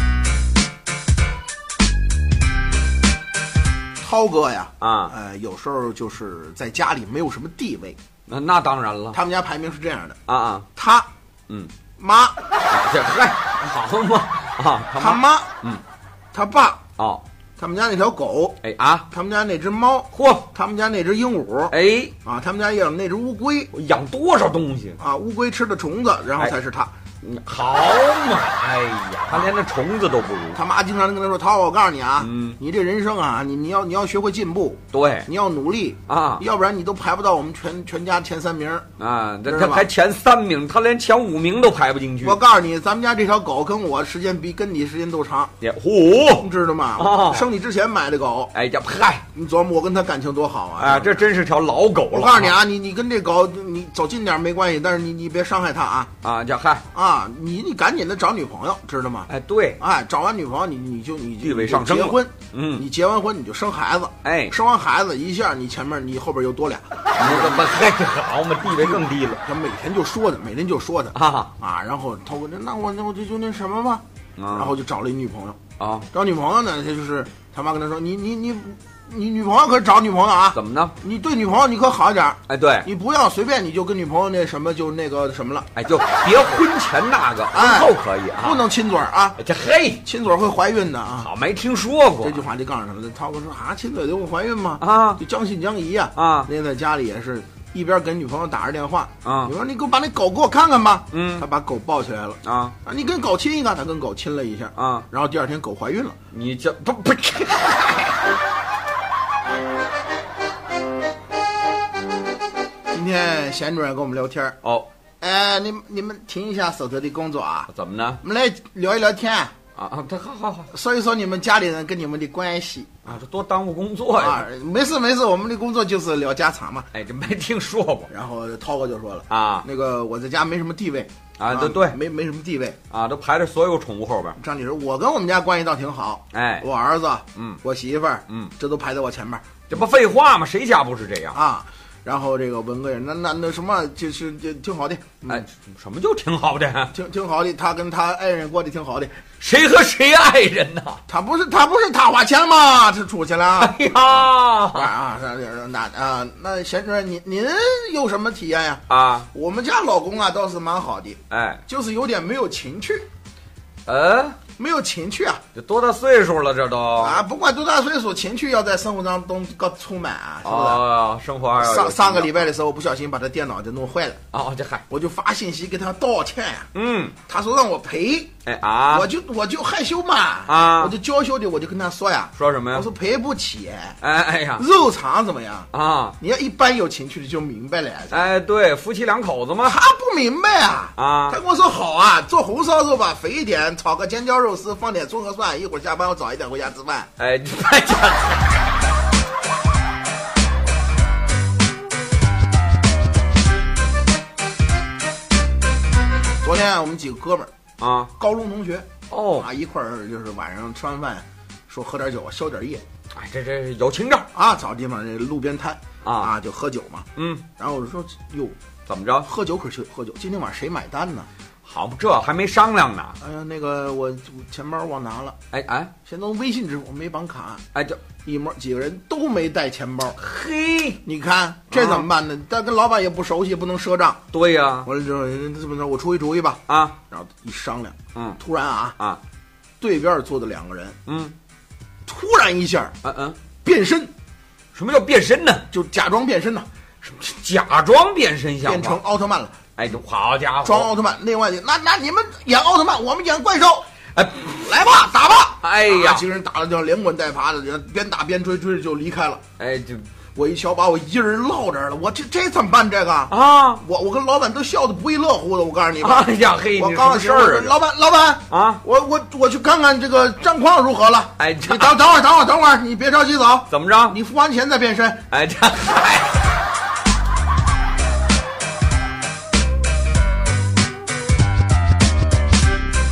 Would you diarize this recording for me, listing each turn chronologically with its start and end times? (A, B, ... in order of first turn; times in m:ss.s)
0:04.0-0:08.0 A
0:04.8-0:05.1 B
0:08.3-0:09.2 B
0:09.1-0:10.2 A
0:10.3-0:10.7 B
0:10.7-0:11.1 A
0:12.0-0:12.4 A
0:12.6-0:15.8 B
0:15.0-0:15.5 A
0:16.3-0:16.8 A
0:17.0-0:17.2 B
0:17.6-0:18.6 A
0:18.6-0:19.1 B
0:19.1-0:23.7 A
0:20.1-0:20.5 B
0:21.7-0:22.1 B
0:23.7-0:25.0 B
0:25.0-0:26.9 A
0:27.2-0:30.6 B
0:30.5-0:38.9 A
0:32.2-0:32.6 B
0:34.9-0:35.3 B
0:36.1-0:36.4 B
0:39.0-0:42.4 B
0:39.4-0:39.9 A
0:42.2-0:45.5 A
0:45.6-0:47.4 B
0:46.4-0:48.5 A
0:48.5-0:49.2 B
0:49.3-0:51.3 A
0:50.8-0:52.6 B
0:52.1-0:56.1 A
0:56.2-0:56.8 B
0:56.9-1:07.9 A
0:59.3-0:59.8 B
1:01.4-1:02.8 B
1:04.2-1:04.5 B
1:07.1-1:09.4 B
1:08.6-1:15.6 A
1:11.1-1:11.5 B
1:14.4-1:14.7 B
1:15.8-1:16.1 B
1:16.1-1:25.7 A
1:20.5-1:21.0 B
1:22.5-1:22.9 B
1:25.7-1:28.6 B
1:27.5-1:29.4 A
1:29.4-1:30.0 B
1:30.0-1:31.3 A
1:31.2-1:32.4 B
1:32.2-1:46.2 A
1:34.8-1:35.2 B
1:36.1-1:36.5 B
1:39.2-1:39.5 B
1:41.1-1:41.4 B
1:42.4-1:42.8 B
1:44.8-1:45.1 B
1:46.3-1:48.2 B
1:52.9-1:54.6 A
1:54.6-1:54.9 B
1:55.2-1:57.7 A
1:57.7-1:58.2 B
1:58.2-1:59.5 A
1:59.8-2:00.7 B
2:00.7-2:03.2 A
2:03.0-2:04.5 B
2:04.1-2:06.9 A
2:06.9-2:08.1 B
2:08.1-2:12.8 A
2:09.3-2:09.6 B
2:11.4-2:12.0 B
2:12.9-2:14.4 B
2:14.4-2:19.5 A
2:16.3-2:16.6 B
2:19.7-2:21.4 B
2:21.3-2:25.4 A
2:25.3-2:26.9 B
2:26.9-2:29.2 A
2:29.4-2:31.0 B
2:31.1-2:43.0 A
2:33.6-2:34.9 B
2:38.9-2:39.3 B
2:41.3-2:41.6 B
2:43.8-2:44.4 B
2:44.6-2:45.4 A
2:45.5-2:47.2 B
2:47.0-2:50.9 A
2:50.4-2:52.5 B
2:51.6-2:54.2 A
2:54.3-2:54.8 B
2:54.9-2:56.7 A
2:56.7-2:57.1 B
2:57.2-2:58.3 A
2:58.4-2:59.1 B
2:58.9-3:04.0 A
3:00.5-3:01.0 B
3:02.4-3:02.9 B
3:04.0-3:04.6 B
3:04.6-3:08.3 A
3:05.7-3:06.2 B
3:08.1-3:09.8 B
3:09.6-3:17.1 A
3:11.0-3:11.4 B
3:17.2-3:18.6 B
3:26.4-3:27.5 A
3:27.8-3:28.1 B
3:28.2-3:32.8 A
3:29.1-3:29.5 B
3:33.1-3:34.3 B
3:34.3-3:37.1 A
3:36.0-3:36.3 B
3:37.2-3:37.4 B
3:37.6-3:38.6 A
3:38.9-3:39.3 B
3:39.2-3:41.3 A
3:41.6-3:43.2 B
3:43.2-3:45.4 A
3:45.5-3:45.9 B
3:46.0-3:47.6 A
3:47.7-3:48.0 B
3:48.2-3:50.2 A
3:50.2-3:51.0 B
3:51.0-3:54.2 A
3:51.7-3:52.0 B
3:54.3-3:54.9 B
3:54.8-3:59.0 A
3:56.7-3:57.0 B
3:59.8-4:01.0 A
4:01.1-4:01.4 B
4:02.0-4:02.9 A
4:03.0-4:03.4 B
4:03.6-4:04.1 A
4:04.7-4:05.7 B
4:05.7-4:06.7 A
4:07.0-4:09.0 B
4:08.6-4:09.6 A
4:09.8-4:10.9 B
4:10.6-4:13.9 A
4:14.2-4:14.5 B
4:14.4-4:19.4 A
4:15.6-4:16.2 B
4:19.6-4:20.1 B
4:20.3-4:35.2 A
4:23.3-4:23.8 B
4:26.0-4:27.8 B
4:28.5-4:28.8 B
4:31.4-4:32.0 B
4:33.7-4:34.2 B
4:35.3-4:36.5 B